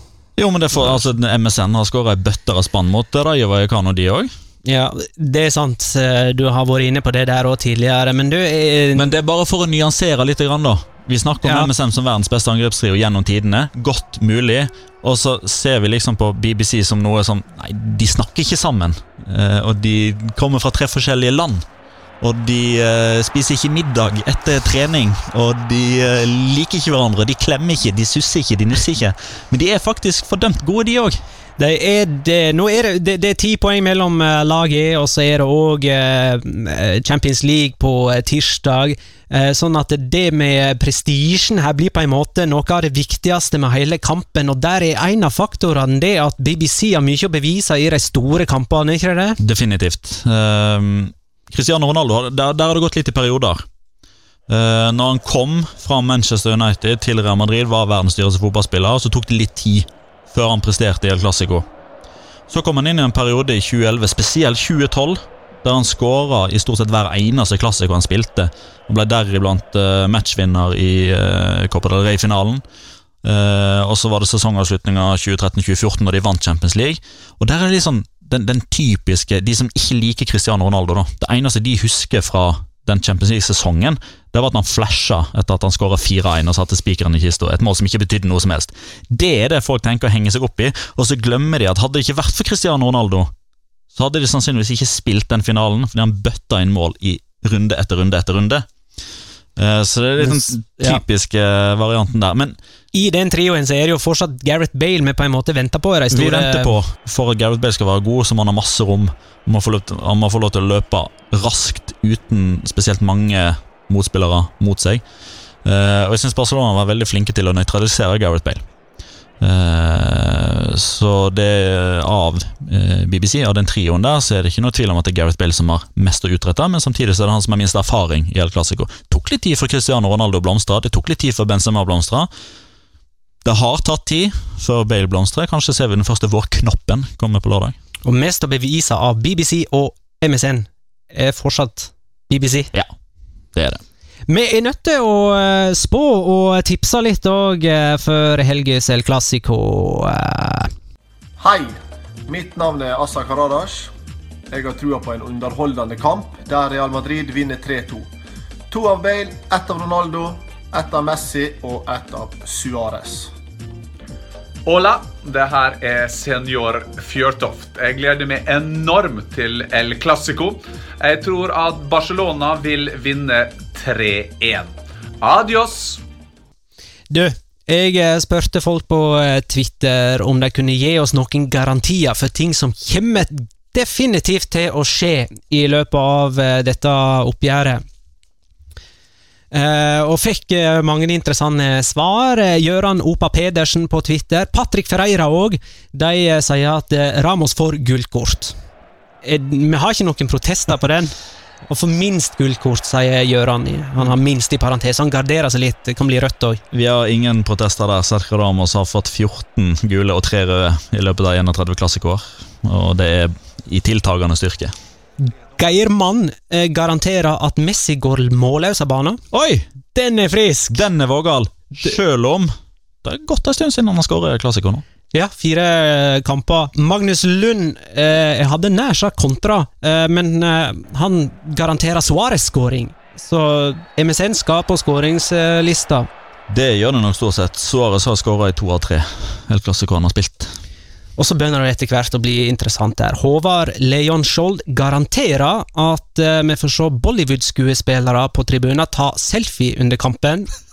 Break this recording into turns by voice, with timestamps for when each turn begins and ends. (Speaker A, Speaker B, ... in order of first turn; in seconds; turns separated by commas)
Speaker A: 0.4-4.3, Speaker B: 4.6-9.0, Speaker A: 8.9-21.6, Speaker B: 11.4-11.7, Speaker A: 22.2-31.2, Speaker B: 31.6-49.4, Speaker A: 49.4-53.6, Speaker A: 54.5-61.7, Speaker A: 62.5-72.6, Speaker A: 73.2-93.3, Speaker A: 93.9-98.7, Speaker A: 99.5-102.6, Speaker B: 100.2-101.0, Speaker B: 102.9-106.7, Speaker A: 106.1-115.0, Speaker A: 115.6-118.7, Speaker A: 119.4-132.3, Speaker A: 133.4-137.8, Speaker B: 138.0-142.7, Speaker A: 143.5-143.8, Speaker B: 144.3-150.7, Speaker C: 151.4-153.9, Speaker C: 154.5-158.1, Speaker C: 158.7-163.3, Speaker D: 164.7-176.0, Speaker B: 177.1-187.8, Speaker B: 189.5-198.5, Speaker B: 199.2-201.1, Speaker B: 201.7-206.6, Speaker A: 206.7-214.7, Speaker B: 215.2-219.2, Speaker A: 219.3-219.7, Speaker B: 219.9-220.8, Speaker A: 220.7-222.5, Speaker A: 223.0-224.8, Speaker B: 225.1-236.1, Speaker A: 236.5-240.5, Speaker B: 241.2-250.5